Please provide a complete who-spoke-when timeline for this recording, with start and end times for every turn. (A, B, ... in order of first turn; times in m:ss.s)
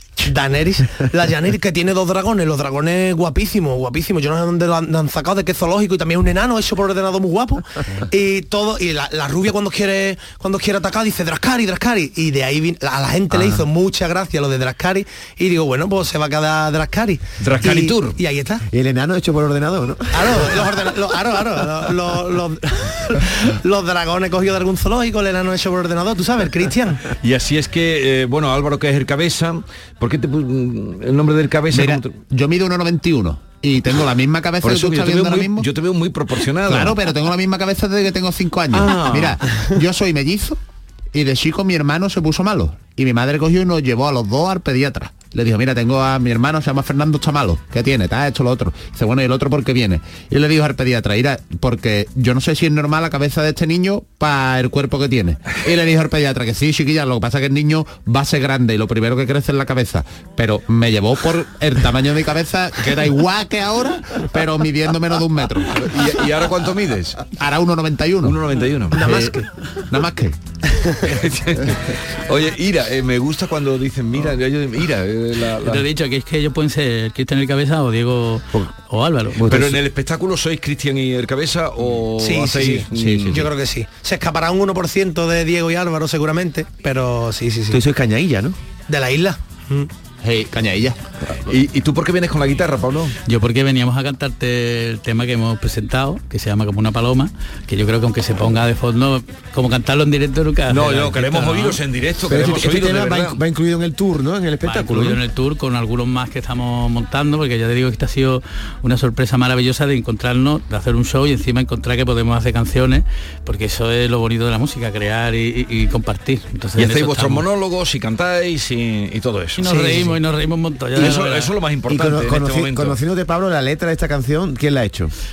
0:00.2-0:18.6 A
0:13.3-0:13.6 B
0:17.4-0:18.2 C
0:18.7-0:20.7 B
0:20.1-0:27.0 A
0:27.2-0:32.2 C
0:31.7-0:35.7 D
0:34.6-0:37.0 C
0:36.7-0:40.6 D
0:38.7-0:39.4 C
0:41.1-1:06.0 D
1:05.8-1:07.3 C
1:07.4-1:08.4 D
1:08.2-1:09.2 C
1:08.9-1:09.5 A
1:09.9-1:10.4 D
1:11.1-1:15.8 C
1:15.6-1:19.5 E
1:19.4-1:19.8 B
1:19.5-1:23.5 C
1:22.2-1:27.8 A
1:23.0-1:23.4 D
1:27.7-1:28.6 B
1:28.9-1:29.9 A
1:30.2-1:31.0 D
1:31.5-1:33.2 C
1:33.3-1:41.8 E
1:40.7-1:43.4 C
1:42.3-1:45.2 B
1:44.6-1:57.4 E
1:56.8-2:00.1 C
1:59.6-2:01.5 E
2:01.0-2:03.0 C
2:01.9-2:05.1 B